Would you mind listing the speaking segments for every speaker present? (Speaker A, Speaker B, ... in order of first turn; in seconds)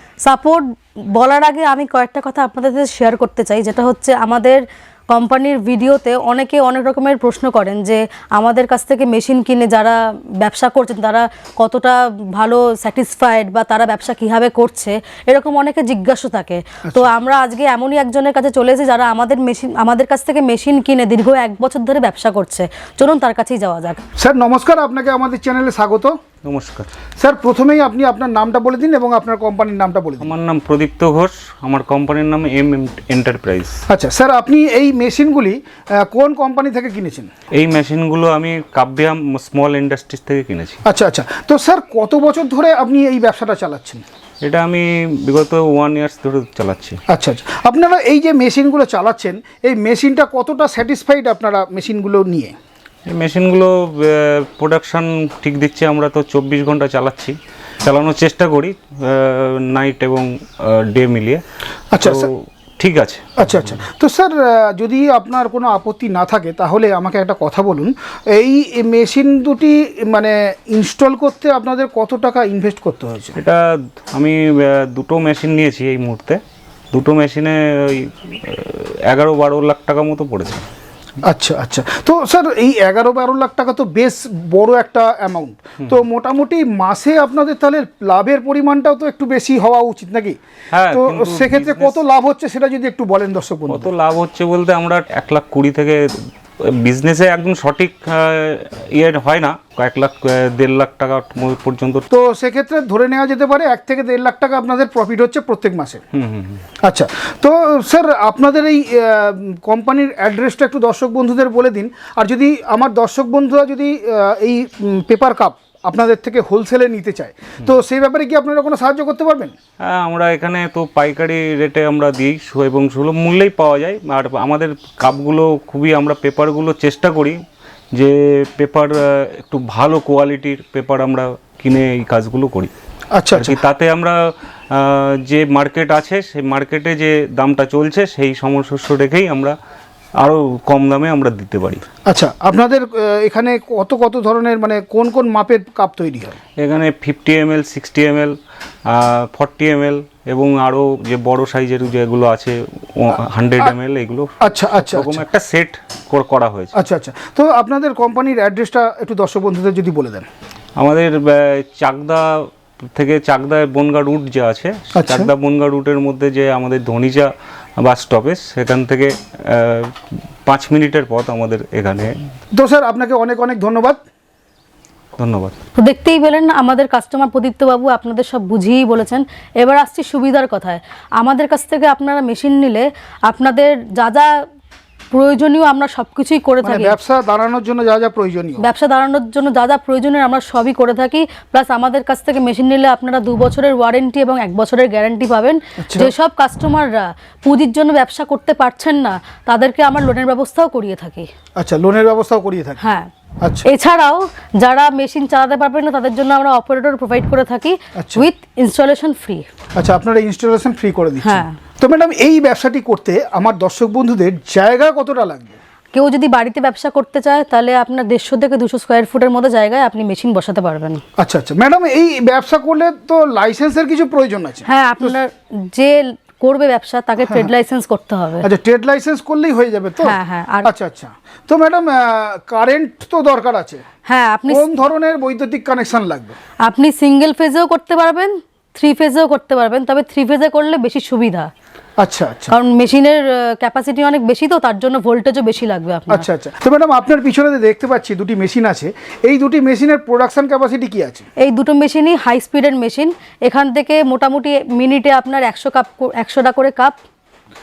Speaker A: 0.2-24.0, 175.8-184.4, 185.1-187.0, 188.6-201.3, 202.8-203.1, 203.7-209.5, 211.2-211.6, 215.9-221.0, 224.7-228.4, 230.0-230.7, 234.1-234.7, 236.7-241.5, 242.5-246.2, 251.4-257.0
Speaker B: 24.2-26.1, 27.2-30.3, 33.9-37.3, 40.9-44.0, 47.1-52.5, 61.9-62.3, 63.4-73.3, 81.2-90.4, 90.9-93.9, 102.1-106.0, 106.9-119.5, 133.1-133.6, 142.1-146.4, 154.4-155.2, 156.7-160.3, 164.9-165.3, 172.5-174.0, 186.6-188.7, 195.8-196.1, 201.6-202.8, 207.9-208.3, 209.8-215.6, 221.2-225.2, 227.3-227.5, 228.4-233.8, 234.5-236.3, 242.0-242.6, 246.1-251.2
Speaker C: 26.4-26.9, 30.2-33.7, 37.6-40.8, 44.4-47.0, 53.1-61.4, 62.0-63.8, 74.1-76.4, 76.9-80.6, 90.7-92.0, 93.7-96.0, 96.6-102.1, 106.1-106.6, 119.8-127.4, 127.9-132.7, 133.3-134.2, 134.7-139.6, 140.2-141.8, 146.6-148.3, 148.9-156.7, 160.8-169.9, 170.5-172.1, 175.2-175.6